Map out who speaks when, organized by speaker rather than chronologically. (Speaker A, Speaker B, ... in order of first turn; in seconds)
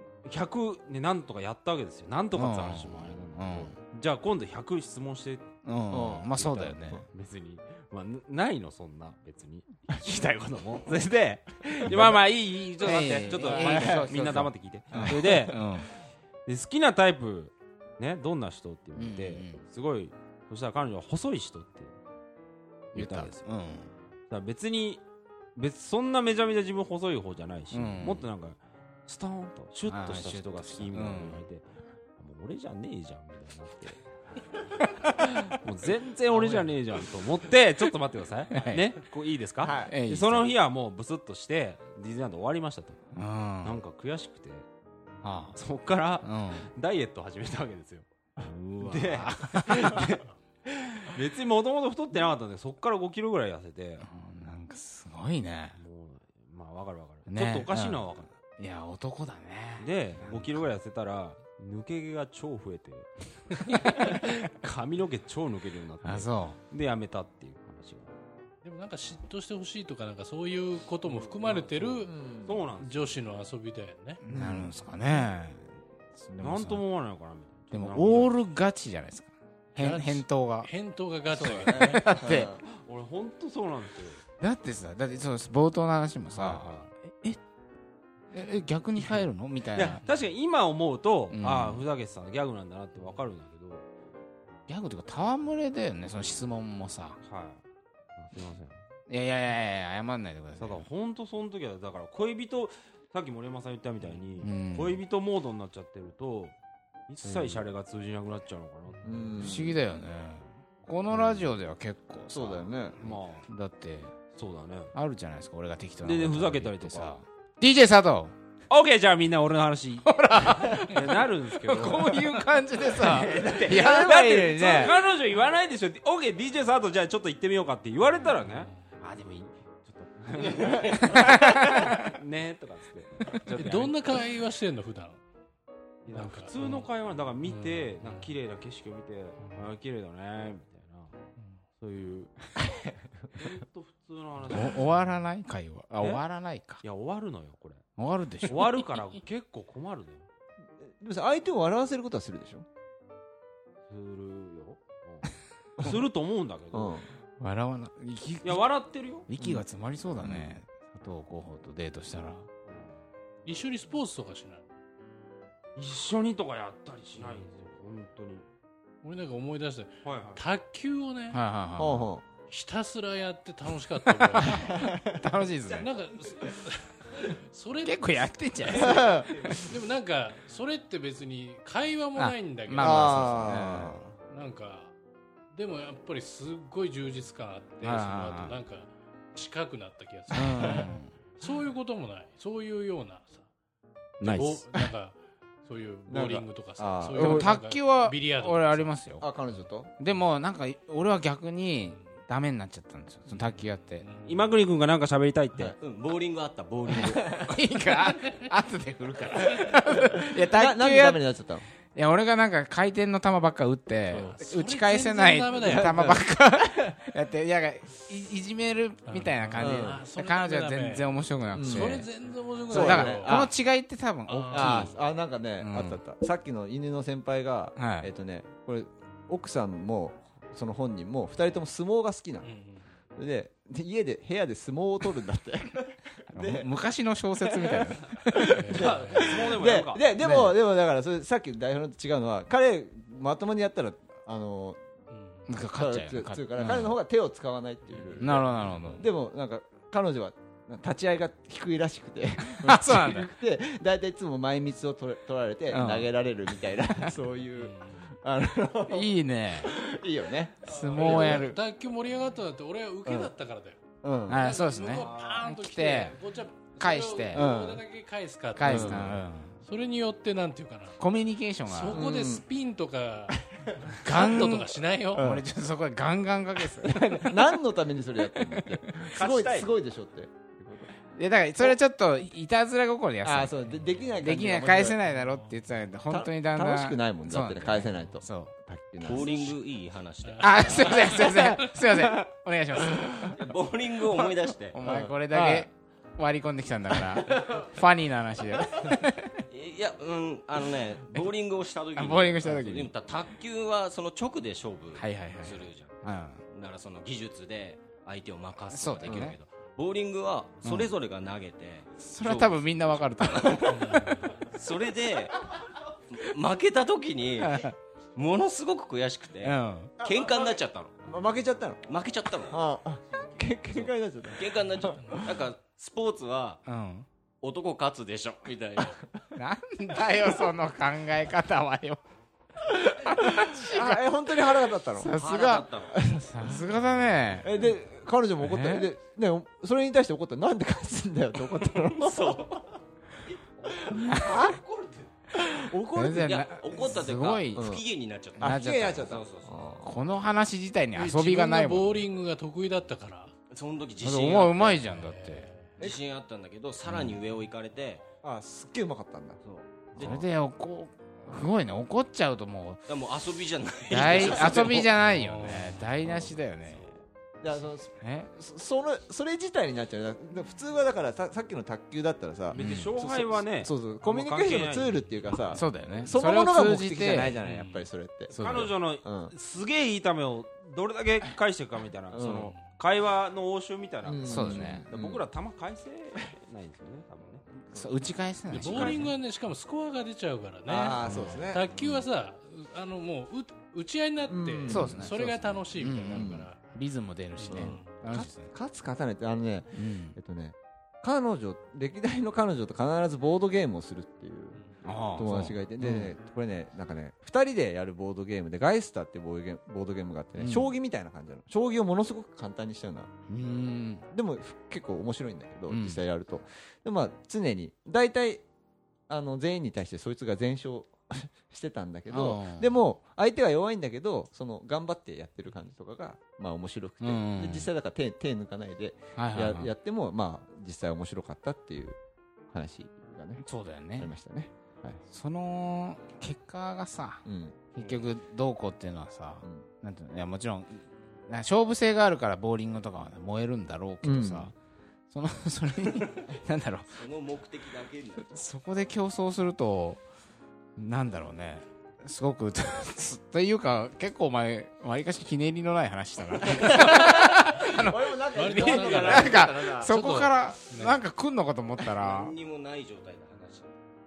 Speaker A: 0.2-5.5, 6.4-15.6, 16.4-21.9, 22.9-23.4, 24.3-25.0, 25.6-31.6, 32.2-34.1, 35.4-43.0, 43.6-44.7, 45.5-54.1, 55.8-58.3, 59.8-68.2, 71.0-73.1, 76.4-78.3, 82.6-84.2, 86.3-86.9, 89.0-93.8, 97.2-97.6, 98.2-98.8, 100.6-106.5, 107.1-109.3, 113.0-113.5, 114.3-114.9, 116.0-117.2, 118.7-134.2, 136.0-141.1, 141.8-142.3, 143.3-144.9, 146.8-147.8, 148.4-150.2, 153.9-157.0, 158.4-159.3, 162.7-162.9, 165.8-168.4, 170.0-170.4, 178.7-179.6, 194.2-194.6, 204.2-205.7, 238.7-240.0, 264.9-265.4, 279.1-279.7, 372.5-375.6, 378.4-387.4, 388.6-389.0
Speaker B: 2.3-3.7, 5.6-7.0, 12.8-15.9, 19.0-19.6, 22.9-23.9, 27.7-28.2, 29.9-31.5, 34.9-35.5, 36.3-36.7, 38.5-38.9, 39.9-40.5, 43.1-43.8, 45.2-45.6, 46.2-46.7, 48.8-50.1, 54.0-55.8, 57.3-60.6, 66.0-66.6, 74.2-76.8, 77.7-80.7, 82.0-82.5, 84.4-87.4, 88.3-90.0, 91.3-91.8, 94.7-97.2, 99.1-100.8, 104.4-105.0, 107.2-107.7, 109.4-114.2, 114.9-118.3, 120.0-124.9, 129.0-129.4, 131.0-132.2, 144.5-146.8, 148.0-148.9, 157.4-158.7, 159.3-162.5, 171.3-172.1, 174.3-175.8, 177.8-179.2, 182.2-184.1, 187.8-188.6, 190.3-191.1, 197.1-199.2, 200.0-204.0, 207.5-211.2, 211.9-222.1, 222.7-224.9, 225.6-226.0, 227.8-228.1, 236.3-238.6, 240.2-240.6, 245.5-246.9, 248.2-249.1, 252.5-253.3, 255.7-256.1, 258.9-259.7, 260.6-261.6, 264.3-266.1, 266.8-267.5, 268.5-269.6, 271.0-272.0, 274.0-277.4, 278.4-278.8, 281.1-283.5, 284.2-288.5, 290.4-293.3, 294.7-299.4, 301.9-302.9, 304.9-306.4, 308.7-309.4, 310.6-310.9, 312.0-314.0, 317.4-317.7, 319.4-320.0, 326.6-327.1, 329.3-332.0, 333.0-334.0, 334.9-337.7, 338.4-338.9, 345.9-347.8, 348.4-349.2, 349.8-352.1, 354.0-355.5, 356.9-357.2, 360.0-362.8, 363.9-366.9, 368.0-368.3, 372.5-372.9, 375.6-377.3, 378.3-378.7, 384.2-384.9, 387.7-389.1, 391.0-392.0, 394.7-398.5, 399.7-400.1, 404.8-406.1, 410.4-410.7, 413.3-414.1, 415.7-416.0, 422.1-422.7, 427.0-427.7, 429.1-429.7, 433.4-434.1, 435.1-444.5, 445.1-447.0, 448.3-450.0, 450.8-462.3
Speaker C: 5.9-7.0, 11.7-12.1, 13.3-14.1, 14.9-15.3, 39.6-39.9, 72.0-72.5, 74.3-74.7, 81.3-82.6, 109.0-109.8, 112.3-113.0, 123.3-124.9, 151.0-152.7, 156.7-157.1, 171.8-172.2, 174.4-175.2, 178.8-179.3, 182.8-184.0, 190.5-190.8, 196.1-197.5, 199.2-199.9, 207.2-207.5, 209.9-211.7, 215.6-216.2, 219.6-220.0, 221.5-222.1, 222.7-223.5, 224.5-232.5, 233.2-236.7, 238.3-244.8, 245.7-261.5, 263.1-263.3, 264.0-264.4, 267.3-267.8, 268.6-269.1, 271.9-272.4, 275.1-275.4, 276.8-280.9, 283.2-285.0, 286.1-289.5, 292.8-293.4, 294.8-295.7, 309.0-309.3, 320.0-321.9, 322.5-325.2, 332.9-335.1, 335.9-336.6, 337.4-342.6, 343.8-344.6, 345.4-346.4, 347.5-347.8, 348.4-349.9, 358.2-359.4, 359.9-360.2, 363.9-364.9, 366.0-366.4, 367.4-378.4, 379.0-379.3, 382.1-382.5, 384.0-385.2, 390.6-391.7, 394.3-395.1, 396.1-396.5, 397.5-404.6, 405.1-413.1, 414.1-418.4, 419.1-432.0, 432.5-433.4, 434.0-435.0, 437.2-437.6, 444.0-444.5, 456.5-459.9
Speaker D: 68.6-72.1, 72.8-74.2, 79.7-82.2, 133.5-135.2, 136.1-136.8, 137.4-138.3, 163.4-164.7, 169.0-171.4, 172.5-174.9, 175.8-178.9, 179.5-183.6, 184.3-184.9, 185.5-193.4, 194.2-198.9, 203.3-204.5, 214.2-216.2, 219.1-221.1, 221.6-223.5, 224.3-224.9, 232.4-232.8, 238.5-239.3, 245.1-245.5, 247.9-249.0, 257.6-258.1, 260.7-263.8, 264.3-271.0, 271.6-273.5, 274.0-275.3, 290.2-291.6, 313.7-314.4, 350.9-353.3, 354.9-355.8, 365.1-365.9, 377.5-377.9, 388.5-396.6, 397.4-397.9, 458.3-461.0
Speaker E: 205.8-207.5, 289.0-291.1, 293.3-294.8, 299.5-315.4, 316.1-321.0, 321.9-322.6, 323.7-326.6, 327.4-329.0, 335.1-336.0, 341.8-342.6, 343.6-345.1, 346.1-349.6, 353.5-354.8, 355.8-358.0, 359.4-360.2, 362.9-364.9, 446.9-448.3, 458.7-459.3, 461.9-463.7